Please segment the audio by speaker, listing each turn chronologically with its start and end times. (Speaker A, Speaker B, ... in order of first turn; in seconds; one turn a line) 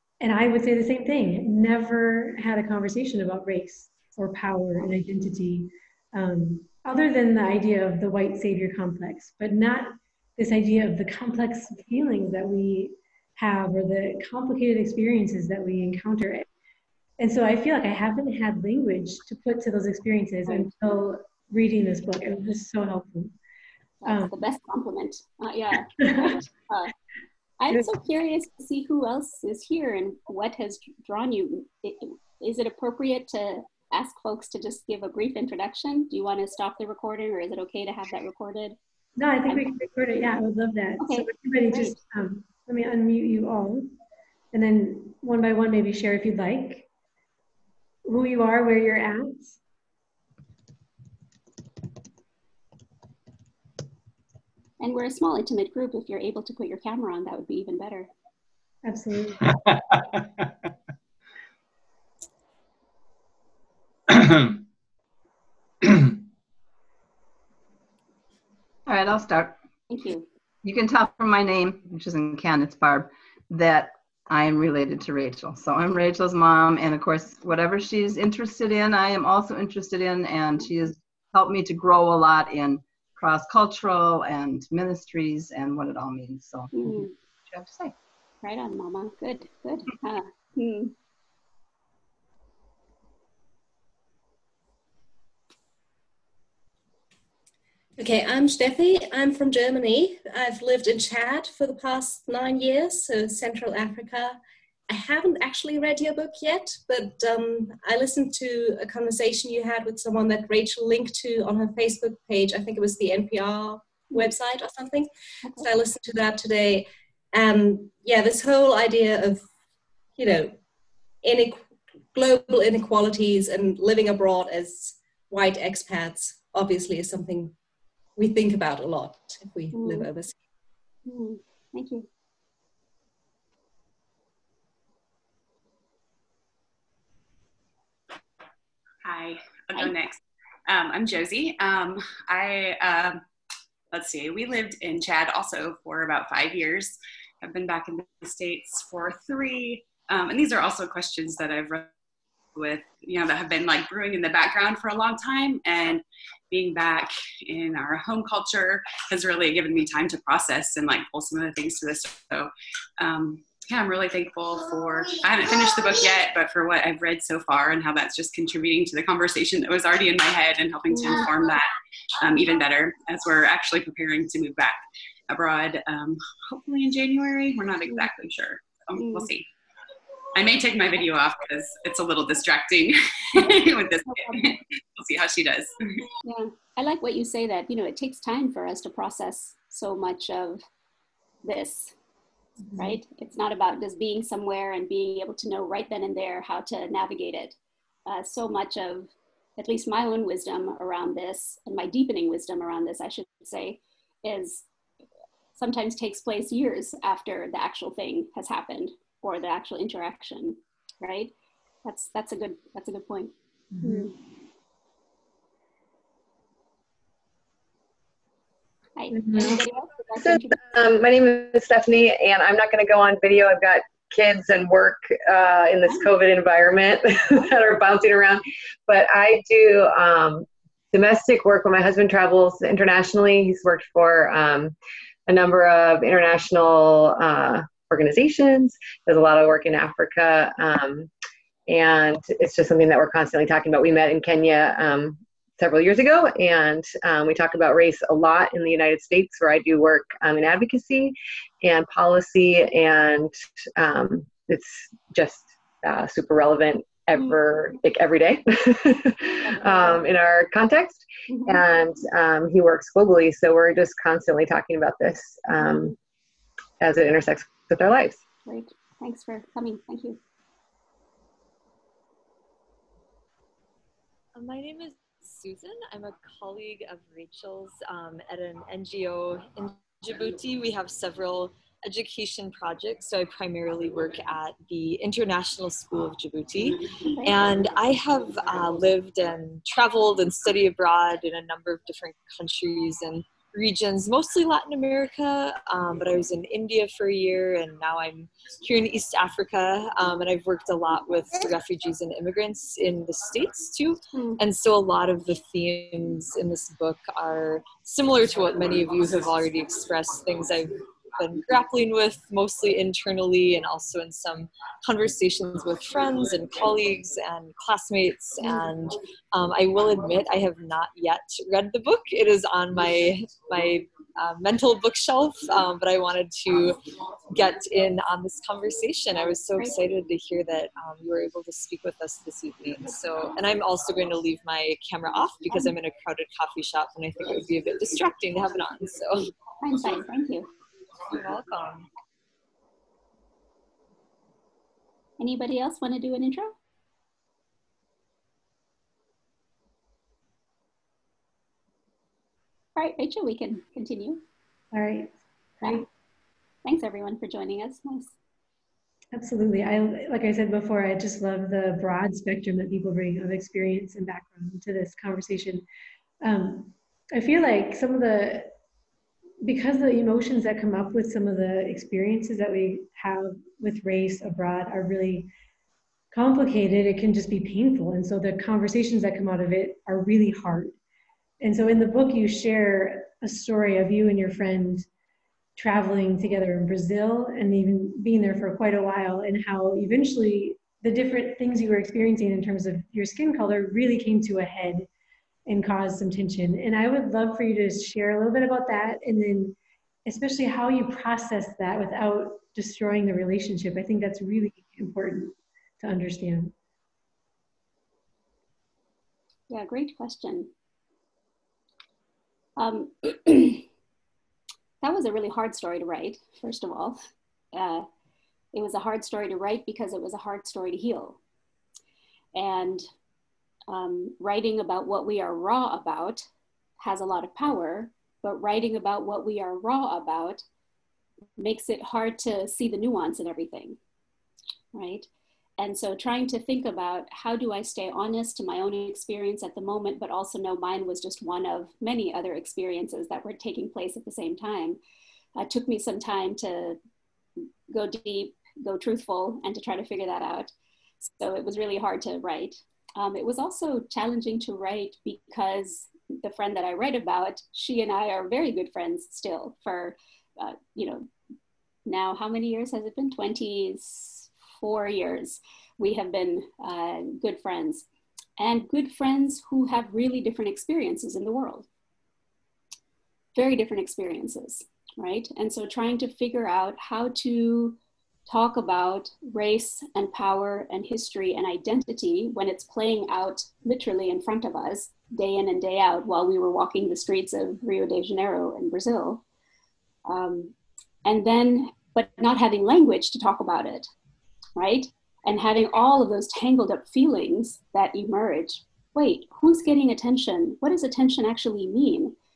Speaker A: 0.2-16.5
Speaker A: 17.2-23.3
Speaker B: 24.0-26.9
Speaker A: 24.1-24.4
Speaker A: 26.0-26.4
Speaker B: 27.6-38.8
Speaker A: 39.2-43.9
Speaker B: 41.0-42.0
Speaker A: 44.5-46.9
Speaker A: 48.0-49.6
Speaker B: 54.8-58.1
Speaker A: 58.8-59.6
Speaker C: 68.9-69.6
Speaker B: 69.9-70.2
Speaker C: 70.6-87.9
Speaker B: 86.7-87.1
Speaker B: 88.4-90.9
Speaker D: 98.0-119.5
Speaker D: 120.2-120.6
Speaker D: 121.2-127.5
Speaker D: 128.2-130.3
Speaker B: 129.7-130.1
Speaker B: 131.1-132.1
Speaker E: 139.0-143.2
Speaker E: 143.9-151.9
Speaker E: 152.5-179.5
Speaker B: 179.0-179.3
Speaker E: 180.3-186.0
Speaker B: 184.1-184.6
Speaker B: 186.2-190.6
Speaker B: 191.4-191.9
Speaker A: 192.7-193.0
Speaker B: 192.8-204.6
Speaker B: 205.6-211.3
Speaker B: 211.8-214.1
Speaker A: 213.7-214.1
Speaker B: 219.0-220.6
Speaker F: 220.2-234.7
Speaker F: 235.3-241.1
Speaker F: 241.7-265.9
Speaker B: 259.4-260.0
Speaker B: 261.3-261.6
Speaker F: 266.8-268.2
Speaker B: 268.4-270.2
Speaker G: 274.4-326.8
Speaker B: 287.2-287.4
Speaker B: 304.1-304.4
Speaker G: 327.3-339.3
Speaker B: 339.6-340.5
Speaker G: 341.1-341.9
Speaker B: 345.2-346.5
Speaker B: 352.8-354.2
Speaker A: 354.7-355.9
Speaker B: 356.6-358.1
Speaker A: 359.1-365.6
Speaker A: 366.2-368.5
Speaker A: 369.4-375.3
Speaker A: 376.1-380.7
Speaker A: 381.4-384.9
Speaker A: 385.6-394.9
Speaker A: 395.4-406.5
Speaker B: 409.5-410.5
Speaker B: 412.6-413.6
Speaker B: 414.8-417.0
Speaker B: 417.5-417.8
Speaker B: 418.5-421.2
Speaker B: 422.3-422.9
Speaker B: 423.7-426.2
Speaker B: 426.8-430.4
Speaker B: 431.4-433.8
Speaker B: 434.7-435.1
Speaker B: 435.6-444.8
Speaker B: 445.4-446.8
Speaker B: 447.7-461.1
Speaker B: 461.9-467.9
Speaker B: 468.4-471.6
Speaker B: 473.4-489.2
Speaker B: 490.1-490.5
Speaker B: 491.0-493.9
Speaker B: 494.6-502.1